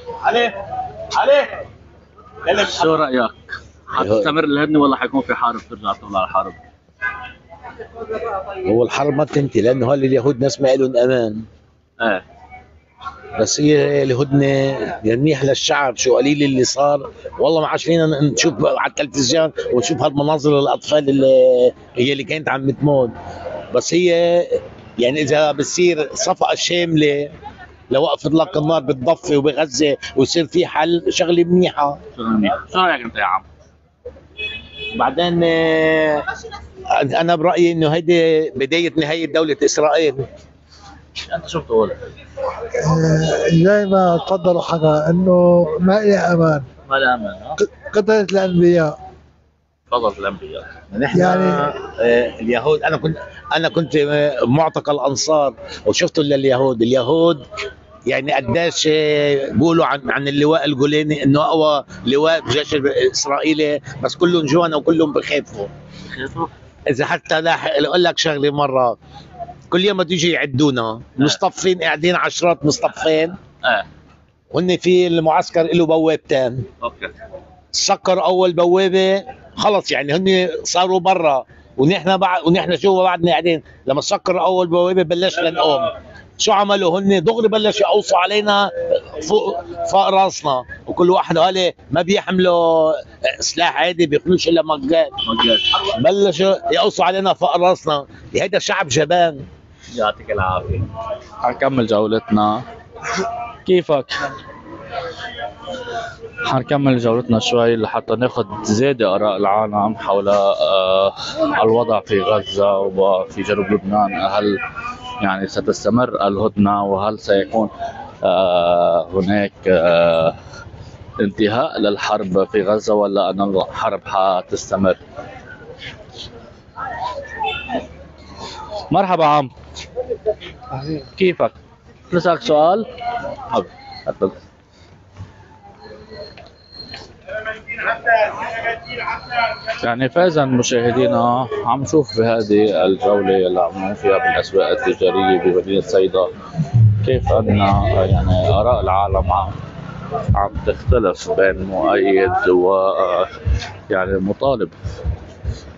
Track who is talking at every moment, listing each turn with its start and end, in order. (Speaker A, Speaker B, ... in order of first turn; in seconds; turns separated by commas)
Speaker A: 0.2-0.5, Speaker A: 1.2-1.5, Speaker B: 2.5-3.3, Speaker B: 3.9-6.5, Speaker A: 4.0-4.3, Speaker A: 8.6-11.4, Speaker A: 13.4-23.1, Speaker A: 23.7-27.3, Speaker A: 27.9-32.0, Speaker B: 32.1-33.4, Speaker A: 34.9-36.2, Speaker A: 37.0-40.3, Speaker B: 41.3-42.0, Speaker C: 43.1-46.6, Speaker B: 46.9-47.6, Speaker C: 47.9-48.9, Speaker B: 49.9-50.7, Speaker A: 50.9-57.4, Speaker A: 58.1-65.7, Speaker B: 66.1-66.5, Speaker A: 66.9-69.0, Speaker A: 69.7-73.4, Speaker A: 74.5-76.6, Speaker B: 76.8-77.1, Speaker A: 77.7-95.1, Speaker B: 95.2-95.8, Speaker A: 96.0-99.4, Speaker B: 99.9-100.9, Speaker B: 101.4-102.6, Speaker B: 103.7-104.1, Speaker B: 106.5-114.6, Speaker B: 115.2-117.7, Speaker B: 118.2-120.3, Speaker B: 121.2-125.0, Speaker B: 128.9-129.5, Speaker B: 130.8-131.5, Speaker B: 132.1-132.9, Speaker B: 133.5-134.3, Speaker B: 139.8-146.3, Speaker B: 147.0-149.6, Speaker B: 150.3-153.3, Speaker B: 153.9-154.7